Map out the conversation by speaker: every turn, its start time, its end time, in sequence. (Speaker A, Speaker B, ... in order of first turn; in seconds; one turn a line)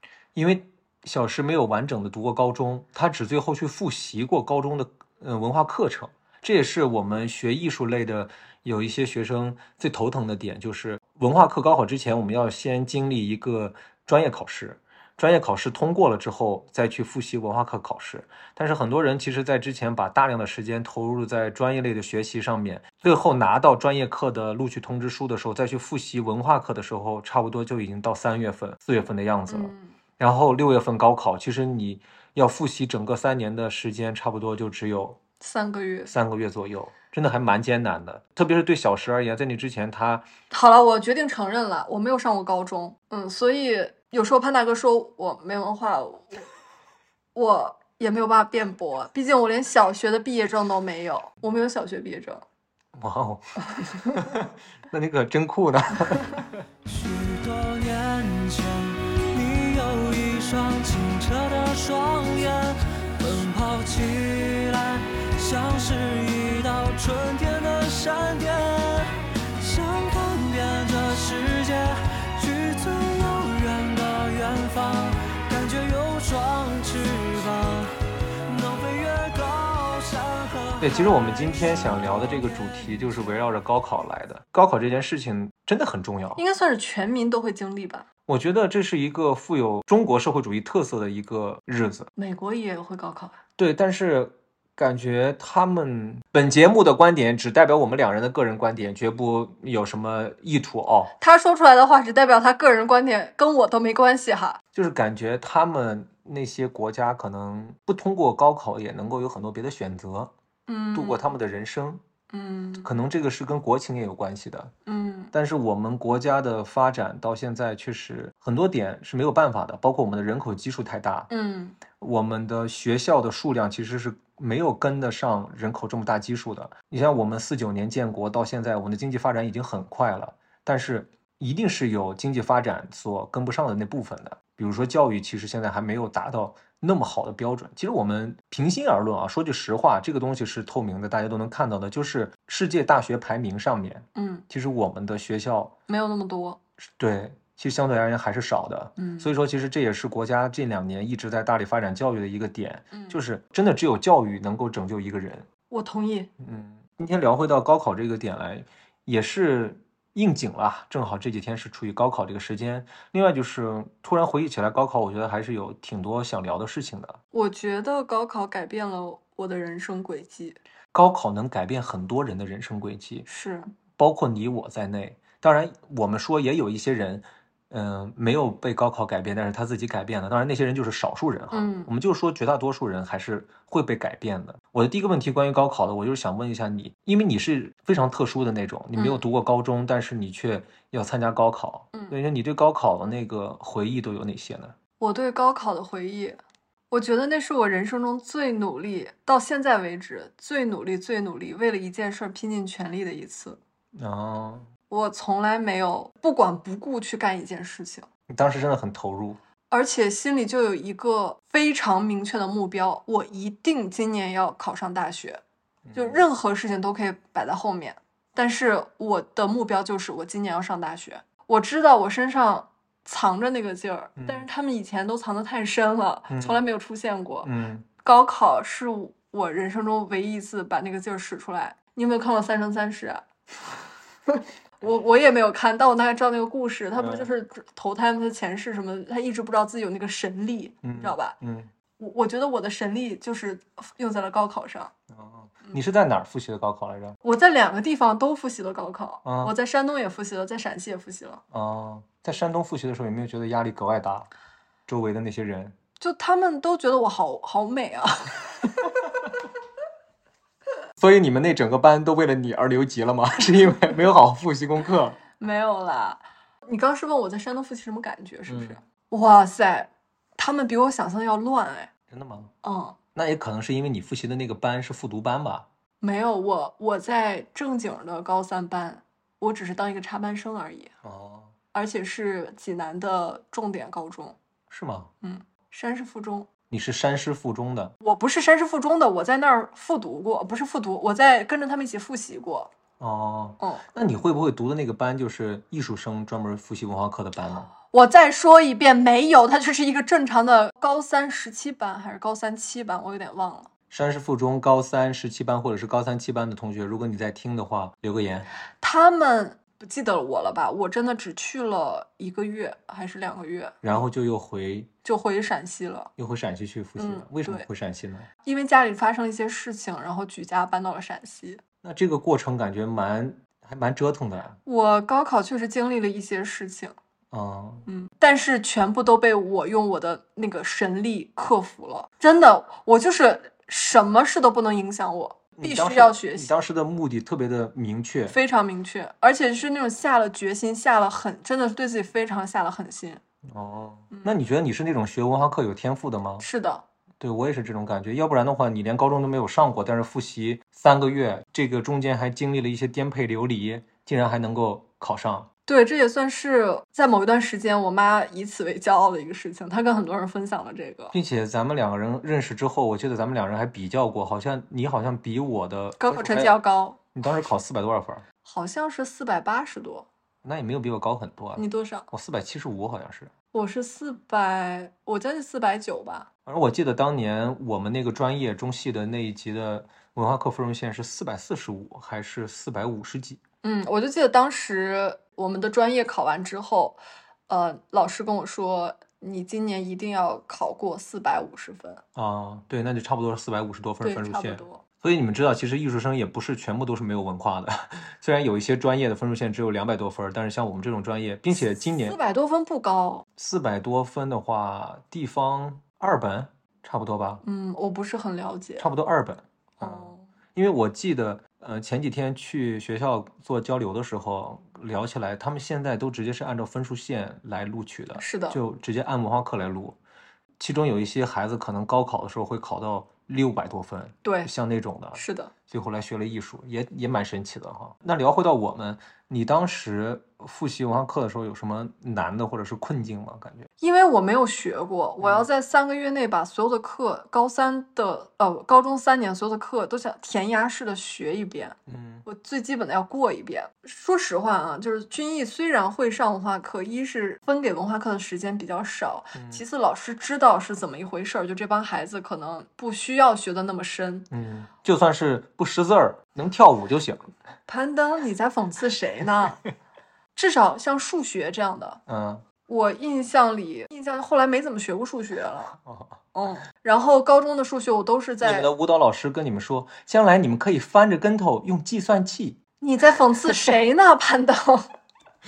Speaker A: 0.3-35.2
Speaker B: 29.5-29.9
Speaker B: 35.4-36.1
Speaker A: 36.1-40.3
Speaker B: 40.5-46.5
Speaker B: 47.4-52.4
Speaker A: 52.9-56.6
Speaker C: 56.9-83.4
Speaker A: 80.8-86.4
Speaker B: 86.4-88.1
Speaker A: 88.3-92.1
Speaker B: 92.2-93.4
Speaker A: 93.6-101.1
Speaker B: 101.2-104.6
Speaker A: 104.7-110.3
Speaker B: 110.7-111.3
Speaker A: 110.9-112.0
Speaker B: 112.3-112.9
Speaker A: 112.8-114.7
Speaker B: 114.9-115.3
Speaker A: 115.3-121.3
Speaker B: 121.3-121.8
Speaker A: 121.9-145.7
Speaker B: 144.2-144.4
Speaker B: 145.9-146.6
Speaker A: 146.8-155.5
Speaker B: 149.0-149.3
Speaker B: 152.9-153.2
Speaker B: 155.7-156.3
Speaker A: 156.4-167.2
Speaker B: 167.3-170.6
Speaker A: 170.9-173.3
Speaker B: 173.3-173.7
Speaker A: 174.0-194.8
Speaker B: 181.5-181.9
Speaker B: 189.0-189.2
Speaker B: 195.0-196.4
Speaker B: 196.9-203.6
Speaker A: 204.0-204.7
Speaker B: 204.9-208.1
Speaker A: 208.3-209.4
Speaker B: 209.7-215.4
Speaker A: 215.8-216.2
Speaker B: 215.9-227.5
Speaker A: 224.2-224.4
Speaker A: 226.3-226.6
Speaker A: 227.4-227.9
Speaker B: 228.0-233.2
Speaker B: 234.3-241.4
Speaker A: 237.0-237.3
Speaker A: 240.8-241.7
Speaker B: 242.0-244.9
Speaker A: 245.1-247.2
Speaker B: 247.2-251.4
Speaker A: 249.2-249.5
Speaker A: 251.5-254.3
Speaker A: 254.9-255.8
Speaker B: 256.0-258.9
Speaker A: 261.0-265.2
Speaker B: 265.4-271.9
Speaker A: 268.5-268.8
Speaker A: 272.1-272.5
Speaker B: 272.6-273.0
Speaker A: 273.1-275.7
Speaker B: 276.0-280.9
Speaker A: 281.0-281.5
Speaker B: 281.7-284.4
Speaker A: 284.7-285.1
Speaker B: 285.2-286.5
Speaker A: 286.7-287.9
Speaker B: 288.0-292.7
Speaker A: 293.0-297.7
Speaker B: 297.8-303.7
Speaker A: 303.9-308.5
Speaker B: 308.8-313.9
Speaker A: 313.8-314.9
Speaker B: 315.1-316.1
Speaker A: 316.2-318.3
Speaker B: 317.0-317.7
Speaker B: 318.4-321.6
Speaker A: 321.8-324.6
Speaker B: 324.7-326.9
Speaker A: 327.3-327.9
Speaker B: 327.9-336.5
Speaker A: 335.6-338.4
Speaker B: 338.3-343.2
Speaker A: 343.5-346.5
Speaker B: 346.4-346.8
Speaker A: 347.2-355.5
Speaker B: 355.7-361.1
Speaker A: 361.1-366.6
Speaker B: 366.0-367.0
Speaker A: 367.1-368.2
Speaker B: 368.4-370.1
Speaker A: 370.4-373.3
Speaker B: 371.6-372.1
Speaker B: 373.5-376.3
Speaker A: 376.5-383.4
Speaker B: 383.6-392.0
Speaker A: 392.2-402.2
Speaker B: 394.0-394.8
Speaker B: 401.9-403.3
Speaker A: 403.4-407.4
Speaker B: 407.4-408.9
Speaker A: 408.8-420.0
Speaker B: 409.8-410.2
Speaker B: 418.2-418.6
Speaker A: 420.6-433.7
Speaker B: 424.2-424.5
Speaker B: 425.1-425.5
Speaker B: 433.8-454.3
Speaker A: 435.2-435.5
Speaker A: 441.9-442.2
Speaker A: 449.4-449.6
Speaker A: 454.3-457.3
Speaker B: 457.7-459.6
Speaker B: 460.4-462.0
Speaker A: 462.1-462.4
Speaker B: 462.7-465.7
Speaker A: 465.8-466.2
Speaker B: 466.3-468.7
Speaker A: 468.4-472.6
Speaker B: 472.8-474.9